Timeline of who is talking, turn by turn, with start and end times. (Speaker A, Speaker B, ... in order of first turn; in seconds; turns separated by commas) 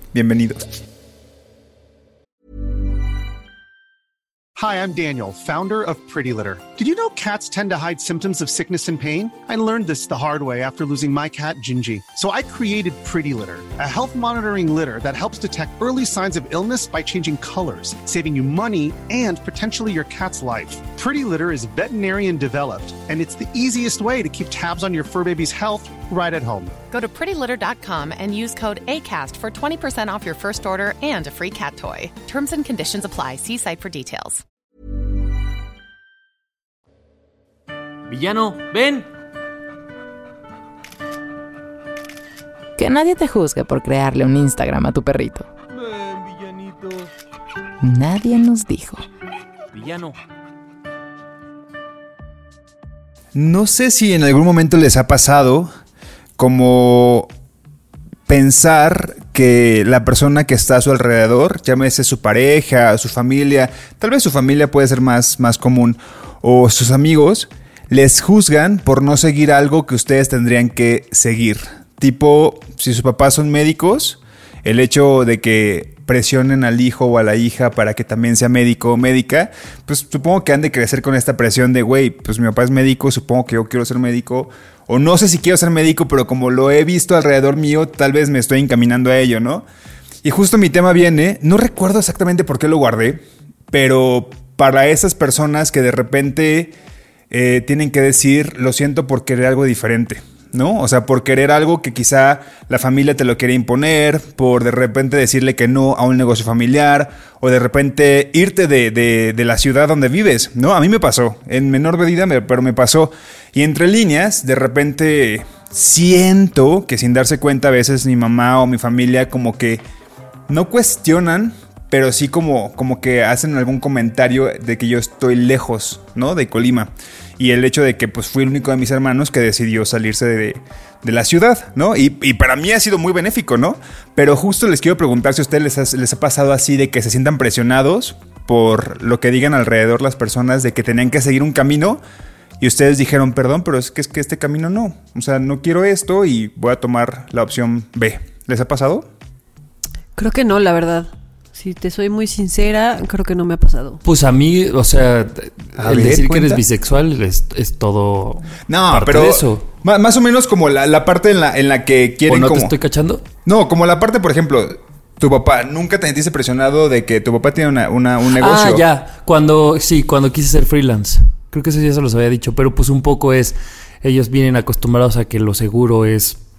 Speaker A: 0.1-0.7, Speaker B: 4.6-26.7, Speaker C: 26.9-34.4, Speaker D: 38.1-39.1, Speaker E: 42.8-45.5, Speaker D: 45.9-47.0, Speaker E: 47.8-49.0, Speaker D: 49.7-50.1, Speaker A: 53.4-55.7, Speaker A: 56.4-57.3, Speaker A: 58.3-89.7, Speaker A: 90.2-96.7, Speaker A: 97.3-119.8, Speaker A: 120.5-142.0, Speaker A: 142.6-149.1, Speaker F: 150.2-154.0, Speaker D: 154.0-159.7, Speaker A: 155.8-156.6, Speaker A: 158.7-162.7, Speaker D: 162.3-163.2, Speaker A: 163.4-168.8, Speaker D: 168.4-176.4